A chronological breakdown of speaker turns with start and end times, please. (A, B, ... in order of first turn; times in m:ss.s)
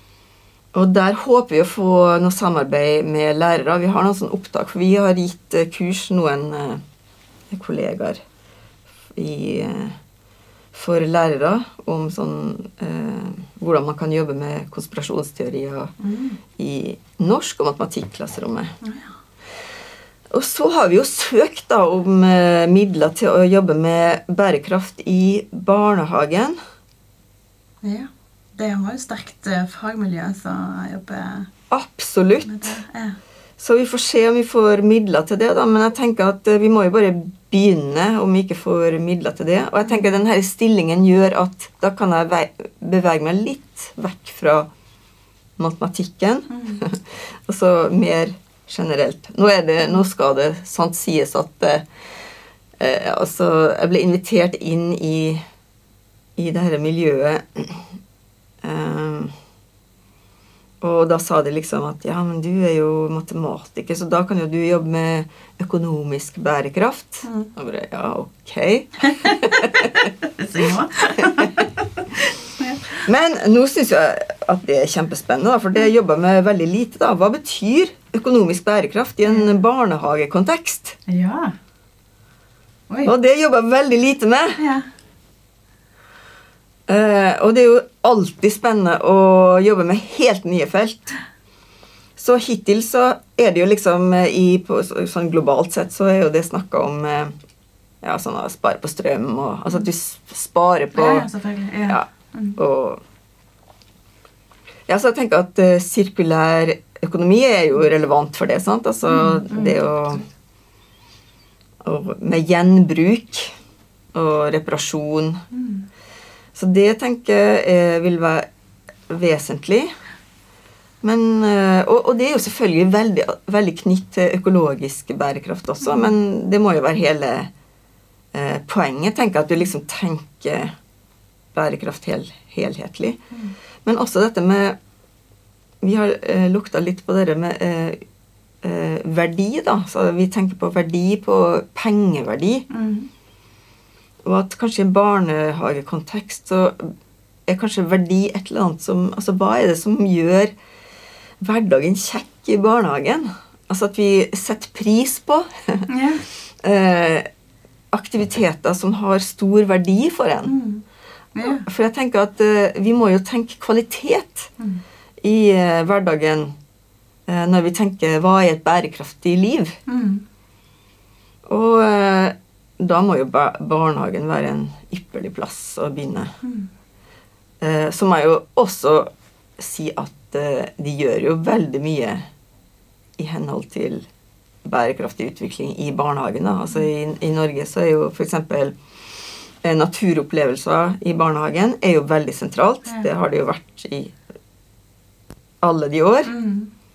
0:00.7-0:06.8 A
0:07.5-0:08.2 A
0:09.1-0:10.0 A
0:10.7-0:15.9 A
0:16.0-0:16.4 B
0:16.6-0:18.8 A
0:18.8-0:19.1 B
0:20.3-0:26.6 A
0:27.8-0:31.5 B
0:31.7-0:32.8 A
0:32.4-0:33.2 B
0:33.6-0:44.7 A
0:45.6-0:51.9 A
0:46.5-0:46.8 B
0:52.8-0:55.4 A
0:56.4-0:57.9 A
0:58.6-0:59.3 A
1:00.8-1:10.1 A
1:07.2-1:07.5 B
1:09.2-1:13.0 B
1:13.0-1:21.0 A
1:21.1-1:21.5 B
1:23.0-1:24.6 A
1:24.6-1:24.9 B
1:26.9-1:31.2 A
1:32.2-1:37.4 A
1:38.0-1:41.3 A
1:40.9-1:42.6 B
1:41.9-1:43.0 A
1:44.9-1:50.2 A
1:49.1-1:49.8 B
1:51.8-1:53.6 A
1:54.1-1:55.4 A
1:55.5-1:55.9 B
1:56.6-1:58.5 A
1:59.1-2:00.0 A
2:01.0-2:07.5 A
2:05.8-2:06.2 B
2:08.3-2:10.8 A
2:11.5-2:13.2 A
2:13.8-2:14.8 A
2:15.8-2:18.0 A
2:18.6-2:22.7 A
2:22.7-2:23.1 B
2:24.2-2:26.9 A
2:27.5-2:30.5 A
2:31.4-2:37.3 A
2:35.9-2:36.2 B
2:37.9-2:40.6 A
2:40.5-2:40.8 B
2:41.4-2:41.7 B
2:41.4-2:44.5 A
2:45.2-2:46.6 A
2:47.3-2:49.8 A
2:49.9-2:50.2 B
2:51.5-2:56.4 A
2:56.4-2:56.7 B
2:57.6-3:02.3 A
3:03.2-3:04.1 A
3:04.6-3:14.2 A
3:15.6-3:16.3 A
3:16.2-3:16.7 B